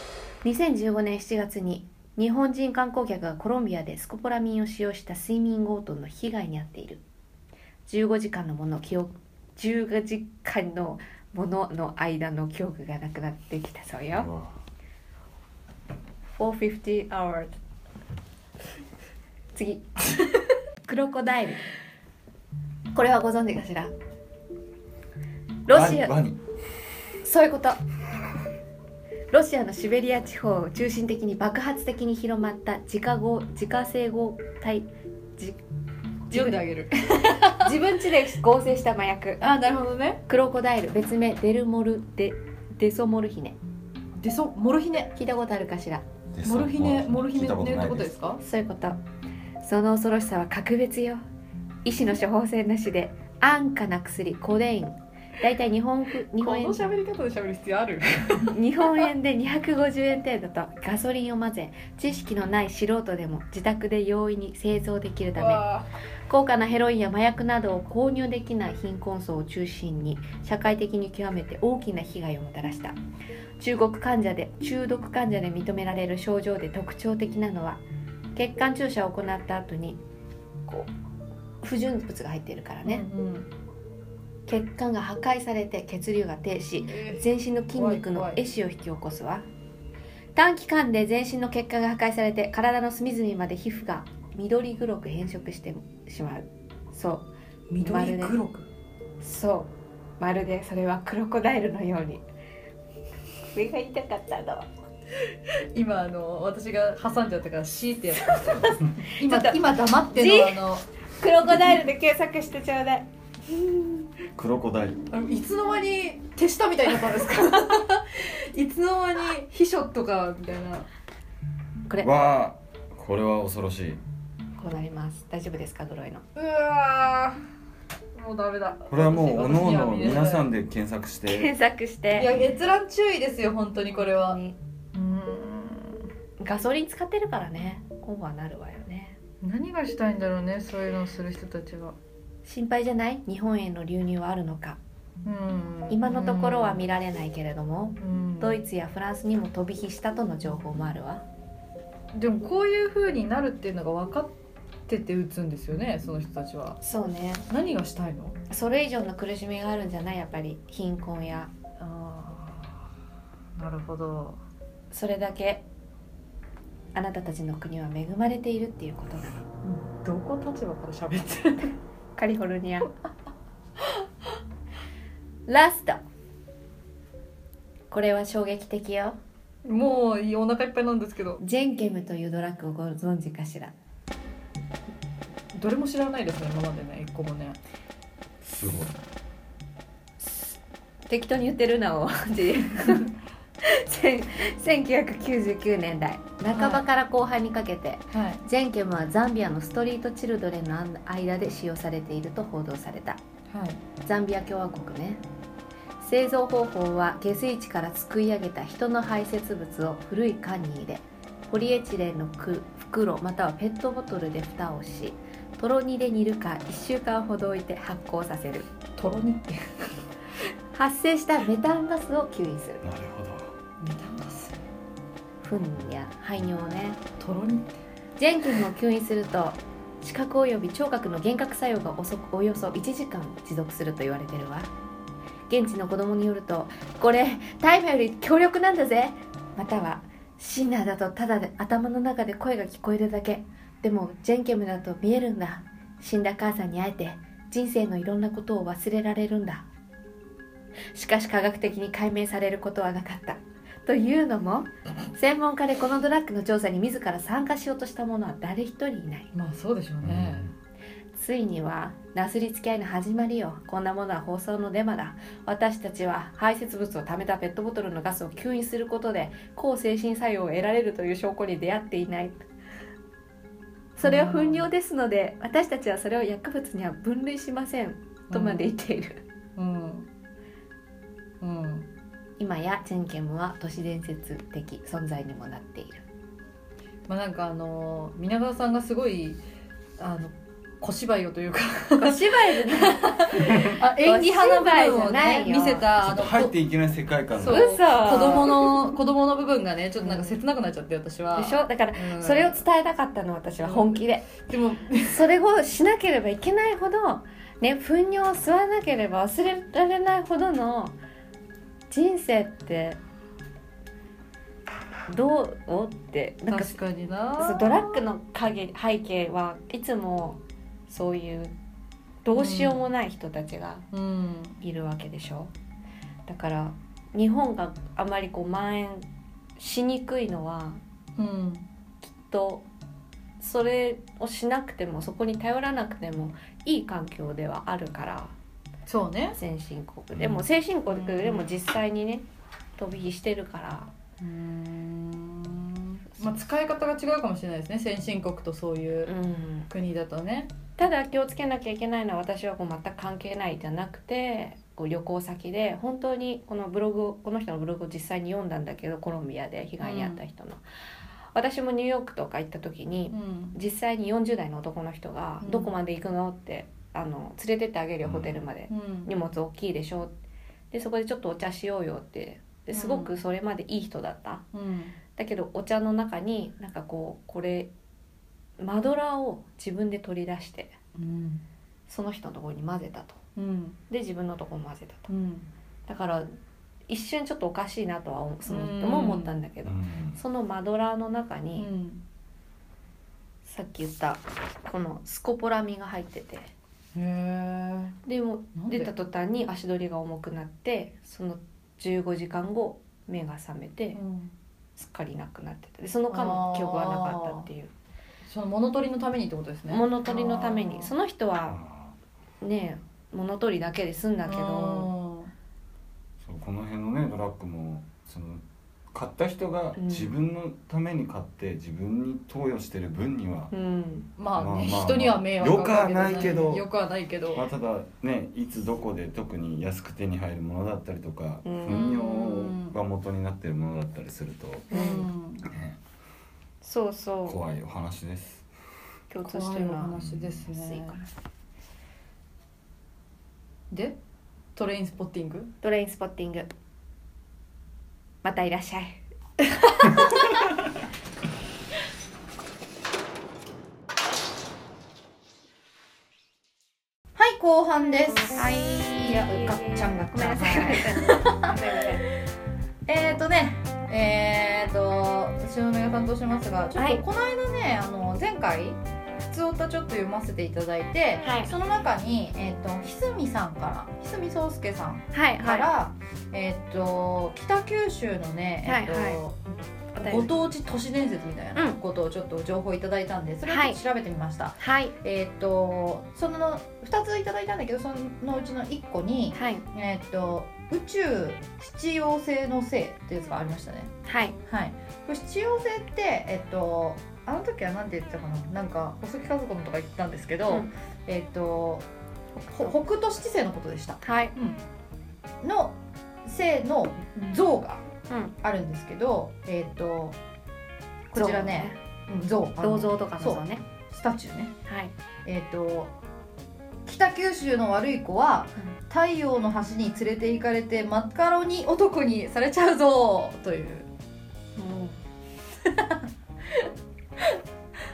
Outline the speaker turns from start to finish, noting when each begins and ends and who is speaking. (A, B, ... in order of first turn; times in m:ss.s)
0:00.4-0:07.0 A
0:07.9-0:14.3 A
0:14.1-0:14.5 B
0:16.4-0:17.6 A
0:19.5-0:19.8 A
0:20.8-0:21.6 A
0:22.9-0:23.9 A
0:25.6-0:26.1 A
0:25.7-0:26.4 B
0:27.2-0:27.8 A
0:29.3-0:35.6 A
0:36.3-0:36.6 A
0:36.3-0:37.7 C
0:37.4-0:39.4 A
0:39.4-0:40.2 C
0:40.3-0:43.6 A
0:44.2-0:45.1 C
0:45.1-0:46.0 A
0:46.3-0:48.1 B
0:46.4-0:48.4 C
0:48.4-0:49.0 A
0:49.6-0:51.2 A
0:51.8-0:56.8 A
0:56.4-0:58.6 C
0:58.5-1:05.6 A
1:05.4-1:05.9 C
1:06.3-1:13.0 A
1:13.6-1:17.8 A
1:18.3-1:20.0 A
1:21.6-1:23.0 A
1:22.8-1:23.5 C
1:24.5-1:29.5 A
1:26.8-1:28.4 C
1:30.3-1:37.3 A
1:37.7-1:38.7 C
1:37.8-1:38.4 A
1:39.2-1:42.2 A
1:43.5-1:44.7 A
1:45.7-1:50.8 C
1:48.4-1:50.6 A
1:51.2-1:54.0 A
1:51.5-1:51.8 C
1:54.4-1:55.0 B
1:55.1-2:00.9 C
2:02.0-2:04.0 B
2:04.6-2:06.2 A
2:06.4-2:07.4 C
2:08.1-2:10.4 C
2:08.9-2:11.5 B
2:11.3-2:12.3 A
2:12.1-2:14.4 C
2:13.9-2:14.6 A
2:14.9-2:16.1 C
2:16.4-2:19.2 A
2:19.4-2:22.0 C
2:22.4-2:24.8 A
2:25.2-2:26.8 C
2:25.9-2:31.2 A
2:28.0-2:28.6 C
2:32.1-2:34.3 C
2:34.9-2:36.8 C
2:36.8-2:37.4 A
2:37.5-2:38.4 C
2:38.5-2:41.5 A
2:41.8-2:42.8 C
2:43.6-2:44.4 C
2:44.9-2:45.6 A
2:46.9-2:49.4 A
2:49.6-2:51.7 C
2:52.2-2:52.9 A
2:55.5-2:56.0 A
2:57.9-2:59.2 A
2:59.6-3:01.4 C
3:01.4-3:03.7 A
3:05.5-3:07.6 C
3:08.4-3:08.9 B
3:10.2-3:10.5 A
3:11.1-3:13.1 A
3:13.6-3:23.2 A
3:16.5-3:16.8 C
3:18.1-3:18.4 C
3:23.5-3:23.8 C
3:24.0-3:25.2 A
3:26.0-3:38.7 A
3:39.0-3:39.7 C
3:40.7-3:42.8 A
3:42.8-3:43.5 B
3:43.8-3:44.6 C
3:45.4-3:47.0 A
3:47.2-3:47.8 C
3:48.2-3:54.7 A
3:55.5-4:09.6 A
4:10.9-4:19.3 A
4:19.3-4:20.5 C
4:20.0-4:20.5 B
4:21.1-4:32.4 A
4:34.0-4:39.2 A
4:34.0-4:34.7 C
4:38.3-4:38.7 C
4:39.6-4:40.1 C
4:41.4-4:41.9 C
4:42.4-4:46.0 A
4:47.1-4:49.4 C
4:50.0-4:56.5 C
4:52.0-4:55.9 A
4:56.0-4:58.1 B
4:57.3-5:02.6 C
4:57.4-4:58.7 A
5:00.0-5:00.4 A
5:01.3-5:04.3 A
5:03.6-5:05.3 C
5:05.1-5:10.9 A
5:11.9-5:13.0 A
5:15.1-5:16.8 A
5:16.5-5:18.0 C
5:17.4-5:21.5 A
5:22.2-5:23.8 A
5:22.3-5:22.8 C
5:23.9-5:24.6 C
5:24.6-5:25.5 A
5:26.3-5:29.1 A
5:29.6-5:30.8 A
5:31.2-5:31.6 C
5:32.0-5:32.6 A
5:33.4-5:38.3 A
5:38.9-5:39.4 C
5:39.3-5:42.2 A
5:40.9-5:41.6 C
5:42.8-5:43.9 A
5:44.2-5:49.1 C
5:49.0-5:49.7 A
5:49.7-5:50.5 C
5:50.8-6:00.6 A
5:59.8-6:00.2 C
6:01.3-6:10.1 A
6:03.1-6:03.6 C
6:05.4-6:05.7 C
6:08.0-6:08.4 B
6:08.7-6:09.1 C
6:10.7-6:14.4 A
6:12.7-6:13.1 C
6:14.5-6:15.0 C
6:15.1-6:17.7 A
6:18.6-6:20.8 A
6:21.0-6:21.4 C
6:21.9-6:23.2 A
6:23.4-6:23.8 C
6:23.9-6:25.1 A
6:25.1-6:25.5 C
6:25.9-6:26.3 A
6:26.9-6:31.7 A
6:28.5-6:29.4 C
6:29.6-6:30.2 B
6:31.6-6:32.0 C
6:33.4-6:36.5 A
6:36.9-6:38.0 C
6:38.0-6:44.0 A
6:38.5-6:38.9 C
6:43.9-6:44.3 C
6:44.8-6:47.7 A
6:46.1-6:47.5 C
6:48.2-6:50.9 C
6:49.7-6:51.6 A
6:51.5-6:51.9 B
6:52.4-6:54.9 A
6:54.2-6:55.3 C
6:56.2-7:03.5 B
6:59.8-7:00.1 A
7:03.5-7:04.1 A
7:04.2-7:07.4 C
7:04.3-7:06.7 B
7:07.3-7:14.7 B
7:11.4-7:11.9 A
7:11.7-7:12.8 C
7:14.7-7:15.1 A
7:14.7-7:15.5 C
7:15.5-7:15.8 B
7:16.6-7:17.4 A
7:17.2-7:18.5 B
7:19.1-7:21.1 A
7:19.2-7:21.0 C
7:19.9-7:20.4 B
7:23.7-7:24.0 C
7:24.6-7:25.5 C
7:25.6-7:26.5 A
7:28.2-7:29.0 A
7:29.6-7:30.3 C
7:37.2-7:41.5 C
7:38.3-7:42.0 A
7:42.9-7:59.5 C
7:46.8-7:47.0 A
7:51.2-7:51.5 A
7:55.1-7:55.7 A
7:58.6-7:59.2 A
7:59.9-8:00.3 A
8:00.0-8:13.9 C
8:03.5-8:03.8 A
8:04.6-8:04.9 A
8:09.3-8:09.6 A
8:14.0-8:14.4 A
8:14.5-8:21.8 C
8:22.5-8:24.6 C
8:24.0-8:24.3 A
8:25.4-8:27.8 C
8:28.4-8:30.2 C
8:31.1-8:34.5 C
8:31.1-8:31.8 A
8:32.6-8:33.6 A
8:34.7-8:34.9 A
8:35.2-8:35.9 C
8:36.8-8:43.9 C
8:44.6-8:45.0 A
8:45.6-8:46.0 C